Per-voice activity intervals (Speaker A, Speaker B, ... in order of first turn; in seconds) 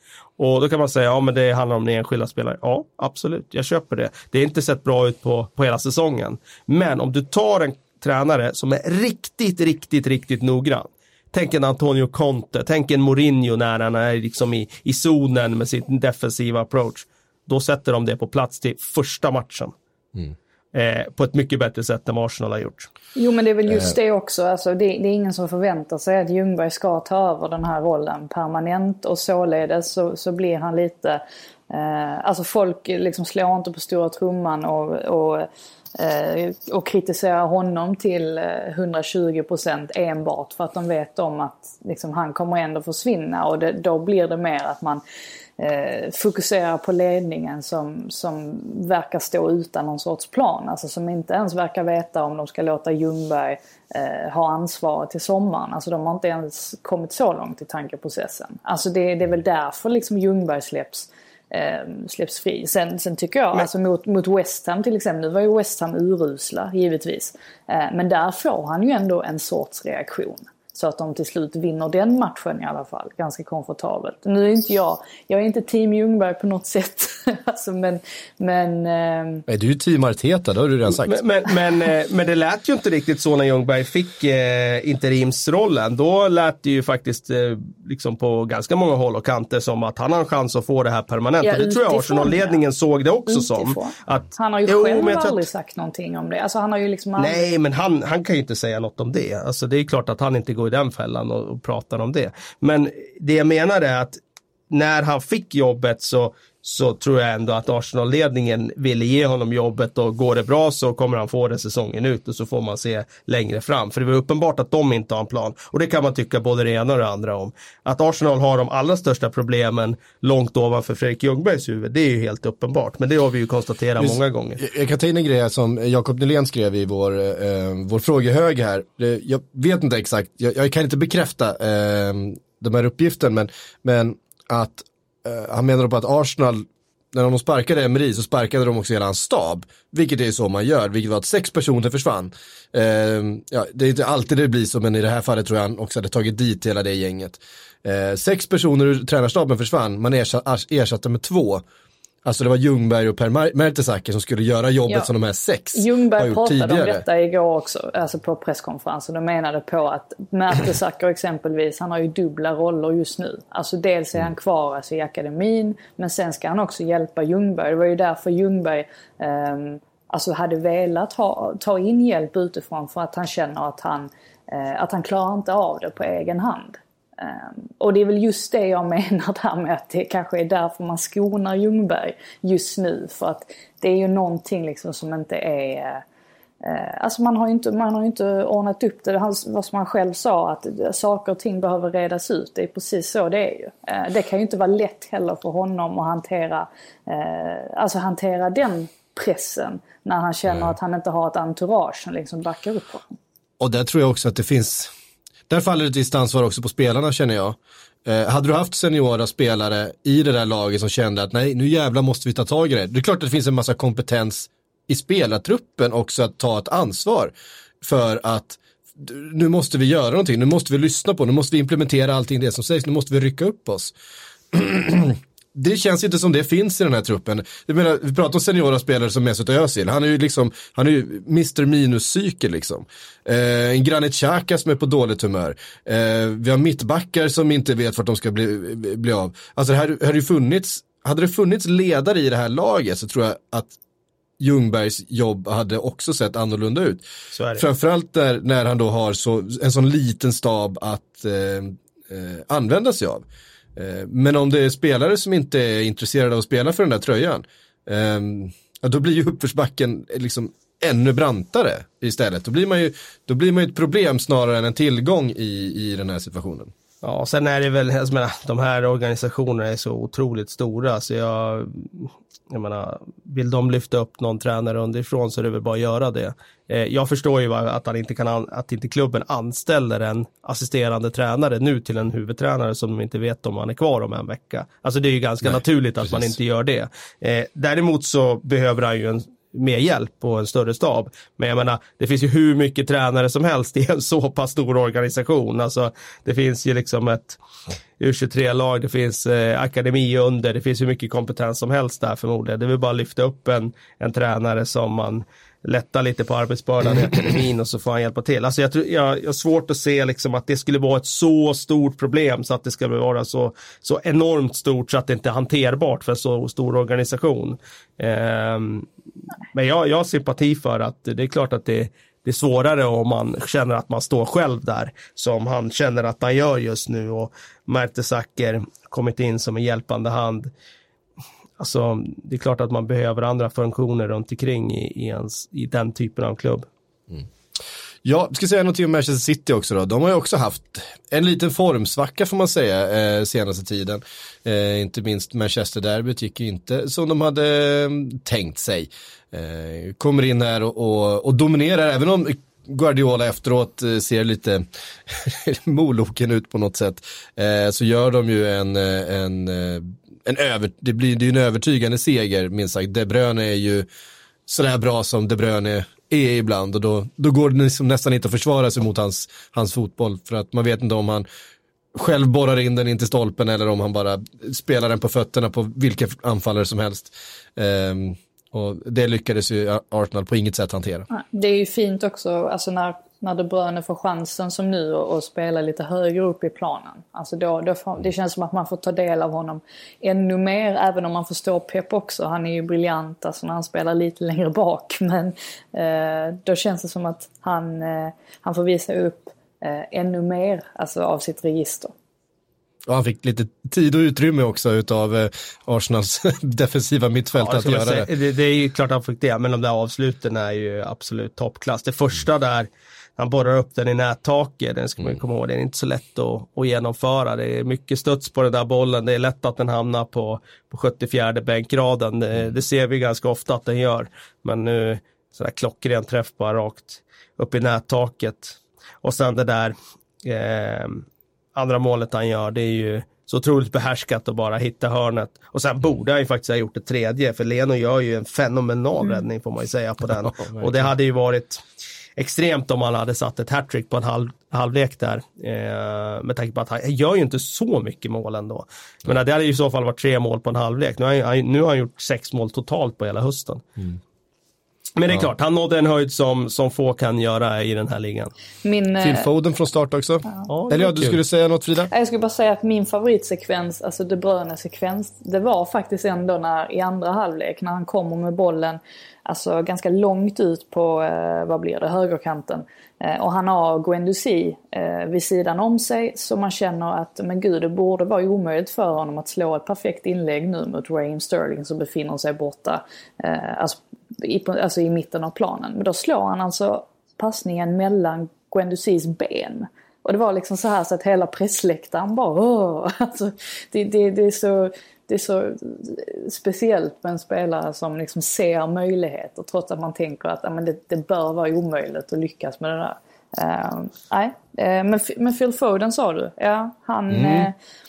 Speaker A: 0.4-19.7, 20.7-22.9, 81.0-95.4, 97.2-104.2, 104.7-124.6, 247.3-247.6, 267.0-297.4, 298.0-318.9, 319.5-330.5, 331.6-336.7, 407.4-441.6, 442.2-453.7, 454.9-458.3, 460.5-461.2
Speaker B: 23.1-45.0, 45.6-79.4, 91.4-92.6, 93.3-97.5, 155.7-186.0, 186.6-203.2, 381.1-401.9, 458.6-459.3, 461.9-507.5
Speaker C: 79.5-81.2, 124.0-151.6, 152.2-157.0, 200.5-200.7, 203.6-204.9, 205.5-223.9, 224.5-243.7, 244.4-247.0, 247.6-253.2, 253.8-266.7, 285.4-286.3, 338.0-363.9, 364.5-371.2, 371.9-381.1, 402.9-408.1, 440.4-440.9, 459.0-461.9, 507.1-507.5